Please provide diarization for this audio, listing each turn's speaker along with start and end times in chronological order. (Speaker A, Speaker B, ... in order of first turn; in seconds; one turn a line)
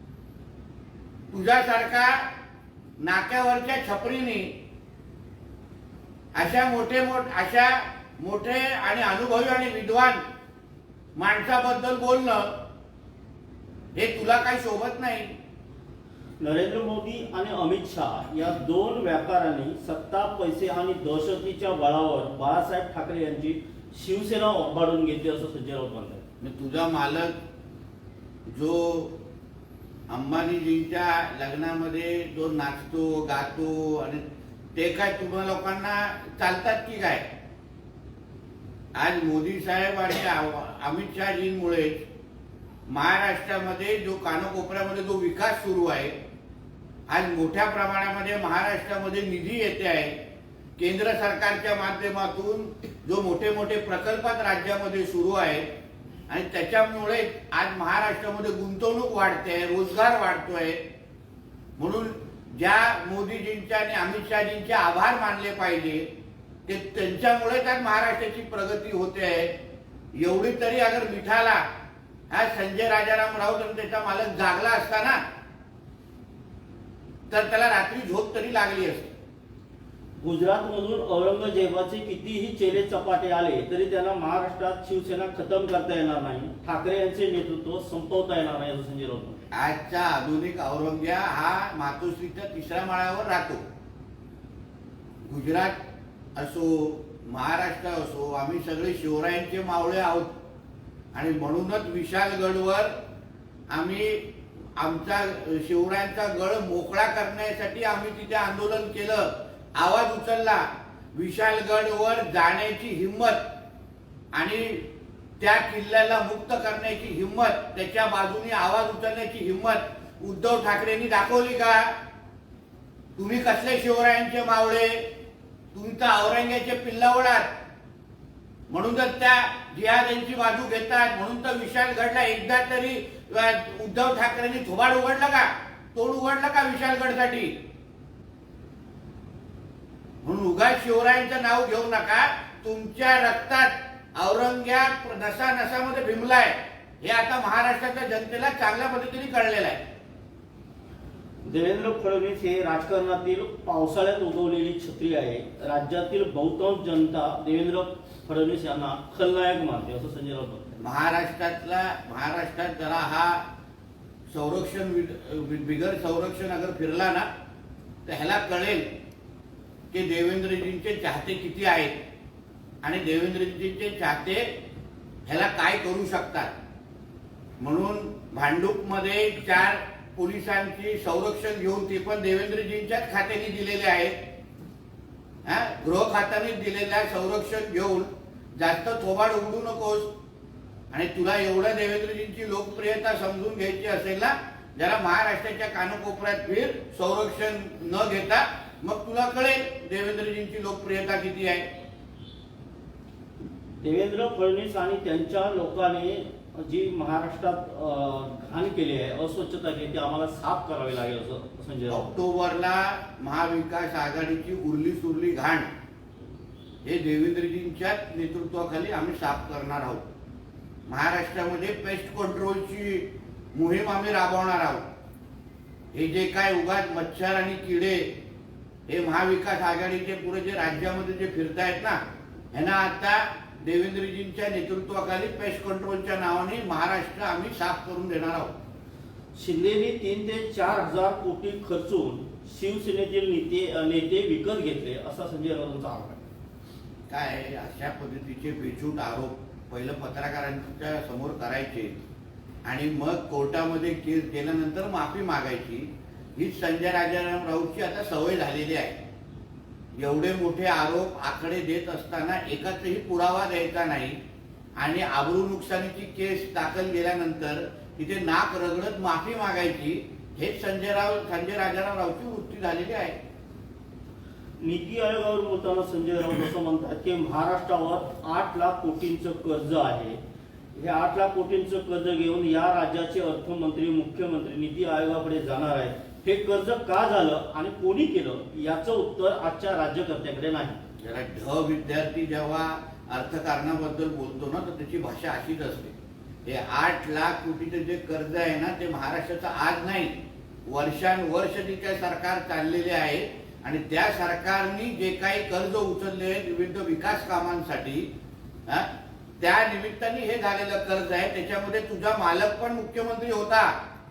Speaker A: 1.3-2.2
Speaker A: 3.0-4.5
Speaker A: 6.3-10.2
Speaker A: 11.2-12.5
Speaker A: 13.9-15.3
Speaker B: 16.4-26.2
Speaker A: 26.4-27.4
Speaker A: 28.5-29.2
Speaker A: 30.1-34.2
Speaker A: 34.7-37.2
Speaker A: 38.9-42.0
Speaker A: 42.9-46.2
Speaker A: 47.1-50.2
Speaker A: 50.8-55.7
Speaker A: 56.3-60.8
Speaker A: 61.8-66.1
Speaker A: 66.7-69.5
Speaker A: 70.2-71.6
Speaker A: 72.3-75.2
Speaker A: 77.3-79.1
Speaker B: 80.2-89.4
Speaker A: 89.5-93.6
Speaker A: 95.2-95.8
Speaker A: 96.3-100.3
Speaker A: 101.1-102.9
Speaker A: 103.7-113.4
Speaker A: 114.3-114.9
Speaker A: 115.4-121.9
Speaker A: 123.2-125.0
Speaker A: 125.7-127.5
Speaker A: 128.7-137.6
Speaker A: 140.2-149.8
Speaker B: 151.4-160.8
Speaker A: 160.8-163.4
Speaker A: 164.3-167.3
Speaker A: 168.1-168.8
Speaker A: 169.9-171.9
Speaker A: 172.8-174.4
Speaker A: 175.2-176.5
Speaker A: 177.6-184.2
Speaker A: 185.4-190.1
Speaker A: 190.9-201.7
Speaker B: 203.8-212.1
Speaker A: 211.9-215.7
Speaker A: 216.8-220.1
Speaker A: 220.9-224.8
Speaker A: 225.9-228.1
Speaker A: 228.9-232.0
Speaker A: 232.5-238.5
Speaker B: 239.3-246.2
Speaker A: 247.1-252.0
Speaker A: 252.7-259.0
Speaker A: 259.9-264.2
Speaker A: 264.8-273.2
Speaker B: 274.6-280.2
Speaker B: 280.8-290.8
Speaker A: 291.0-295.9
Speaker A: 296.4-308.1
Speaker A: 309.4-313.7